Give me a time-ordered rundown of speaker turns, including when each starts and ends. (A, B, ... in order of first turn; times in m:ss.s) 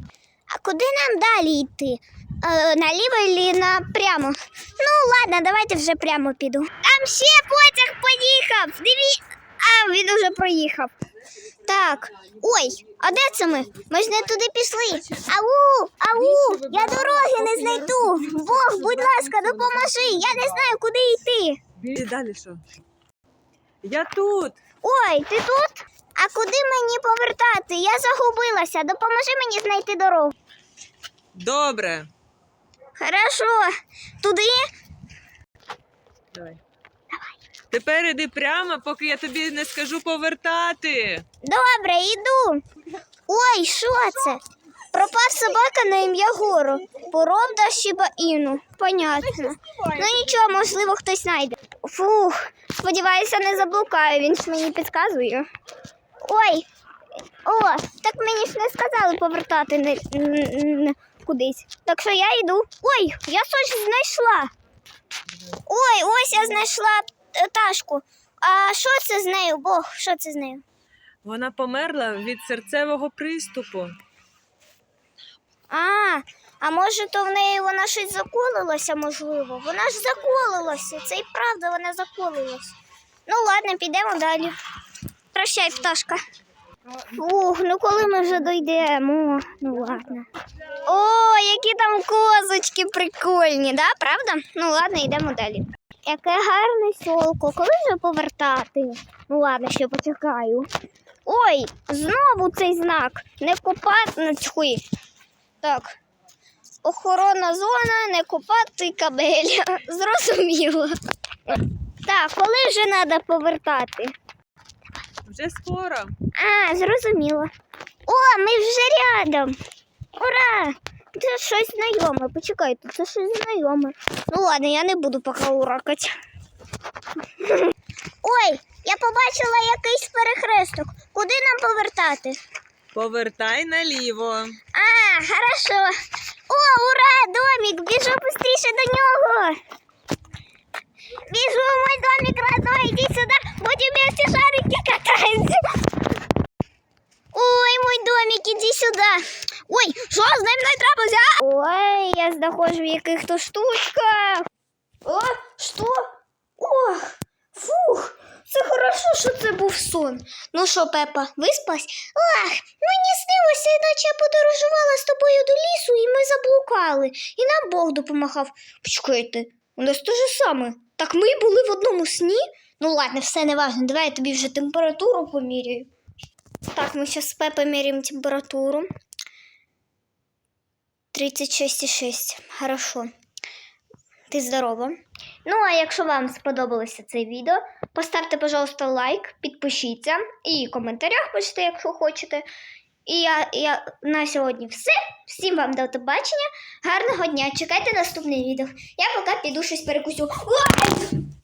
0:00.5-0:10.9 A
0:11.6-0:21.6 A
0:16.1-0:20.5 B
0:21.8-0:22.6 B
0:23.8-0:24.6 B
0:24.8-0:30.3 A
0:31.3-0:32.1 B
0:33.0-0:34.7 A
0:36.3-0:36.6 B
0:37.7-0:41.2 B
0:41.4-0:42.6 A
0:43.3-0:55.5 A
0:49.6-0:50.5 B
0:56.2-0:56.6 A
0:57.4-1:04.5 A
1:05.7-1:10.6 A
1:11.2-1:14.0 B
1:15.7-1:24.6 A
1:25.3-1:26.2 A
1:27.0-1:30.3 A
1:30.8-1:40.7 A
1:41.2-1:44.8 A
1:45.6-1:45.9 A
1:46.8-1:50.9 A
1:51.5-1:54.1 A
1:55.2-1:56.1 B
1:56.3-1:57.5 A
1:58.0-1:59.6 A
2:00.1-2:06.1 A
2:07.4-2:12.4 A
2:12.9-2:14.6 B
2:14.7-2:15.9 A
2:16.5-2:19.6 A
2:21.2-2:25.6 A
2:27.3-2:34.5 A
2:35.0-2:55.9 A
2:56.7-2:58.9 A
3:01.1-3:03.1 A
3:04.3-3:12.4 A
3:13.0-3:21.2 A